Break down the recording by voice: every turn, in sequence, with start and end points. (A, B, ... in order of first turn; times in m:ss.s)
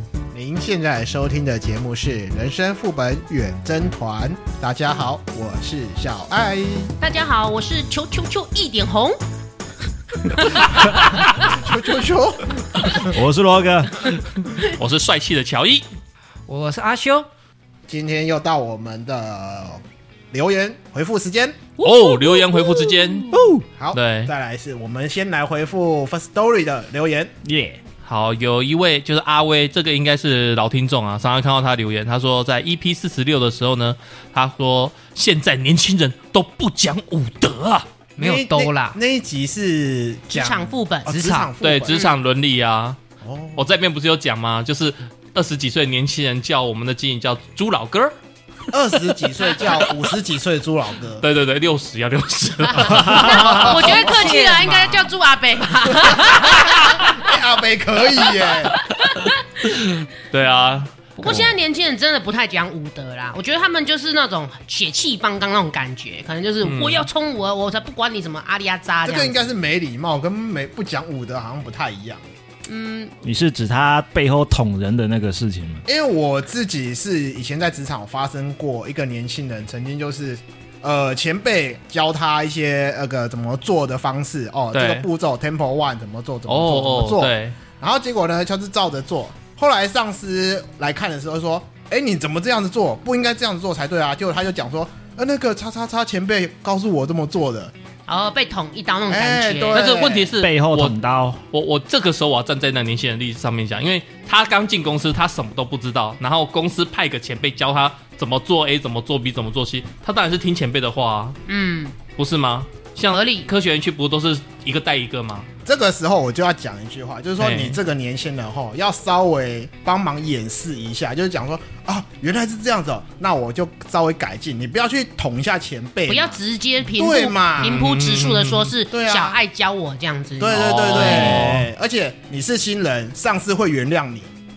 0:00.3-0:07.0 A
0:07.0-0:09.2 B
0:11.3-0:13.2 A
0:13.0-0:14.0 C
0:14.5-0:15.8 D
0:16.5-0:17.3 E
0:17.9-0:21.7 A
0:21.8-0:23.2 D
0:21.8-0:23.5 B
0:23.3-0:23.6 C
0:23.7-0:27.3 A
0:23.9-0:24.3 D
0:27.4-0:27.8 C
0:28.0-0:37.9 D
0:38.2-0:39.0 E
0:38.2-0:42.1 A
0:40.3-0:41.3 B
0:41.0-0:41.5 E
0:41.6-0:43.0 D
0:43.2-0:43.6 A
0:43.6-0:48.1 D
0:48.7-0:51.2 A
0:51.2-0:53.4 D
0:52.7-0:57.1 B
0:53.0-0:53.5 C
0:53.1-0:55.1 A
0:53.5-0:54.8 E
0:55.9-0:58.8 A
0:58.9-0:59.4 B
0:59.6-1:00.9 D
1:01.2-1:09.4 B
1:06.6-1:07.1 D
1:09.0-1:12.2 A
1:12.7-1:13.1 B
1:13.2-1:15.8 C
1:15.9-1:37.7 A
1:24.7-1:25.0 D
1:26.5-1:27.6 D
1:38.1-1:39.8 B
1:39.1-1:40.3 A
1:39.7-1:40.9 D
1:40.4-1:41.4 C
1:41.5-1:51.4 D
1:51.5-1:52.0 B
1:52.2-1:55.5 D
1:53.1-1:53.5 B
1:55.6-2:06.4 A
1:57.4-1:57.8 D
2:06.1-2:11.3 B
2:07.0-2:07.8 A
2:07.6-2:08.7 D
2:08.9-2:09.4 A
2:10.4-2:14.3 A
2:10.5-2:11.6 D
2:11.2-2:11.6 C